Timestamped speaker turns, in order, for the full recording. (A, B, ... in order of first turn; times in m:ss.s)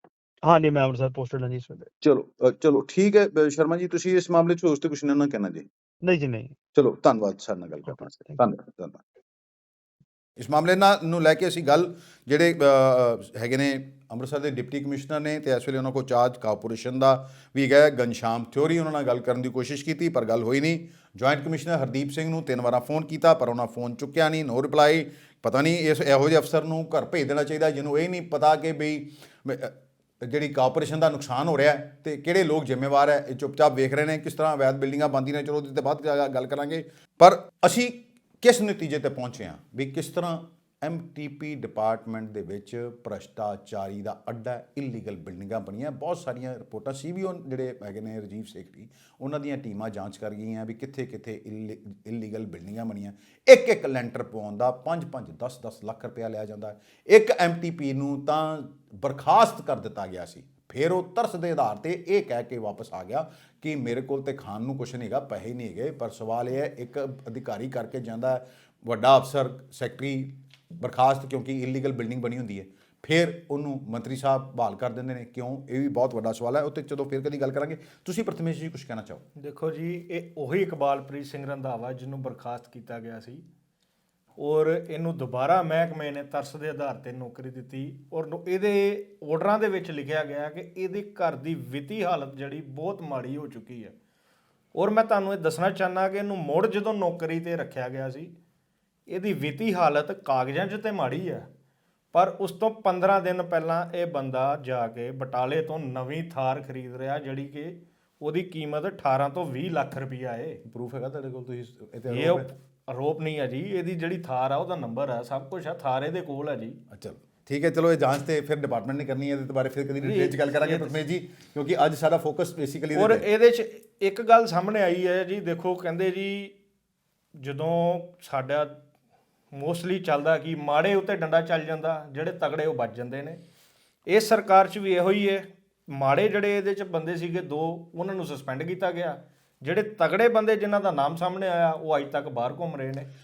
0:00.4-0:01.9 A
0:02.0-0:05.6 B
0:06.0-0:06.5 A
0:06.7-0:09.0 B
0:10.4-1:19.2 B
1:19.4-1:23.4 C
1:24.4-1:33.9 C
1:34.7-1:38.3 C
1:39.1-1:41.5 C
1:42.1-1:50.6 C
1:50.6-1:52.5 B
1:52.1-1:56.8 C
1:56.9-2:03.2 B
2:00.0-2:01.0 C
2:02.9-2:06.5 C
2:07.4-2:08.8 C
2:09.5-2:13.4 C
2:14.1-2:23.1 C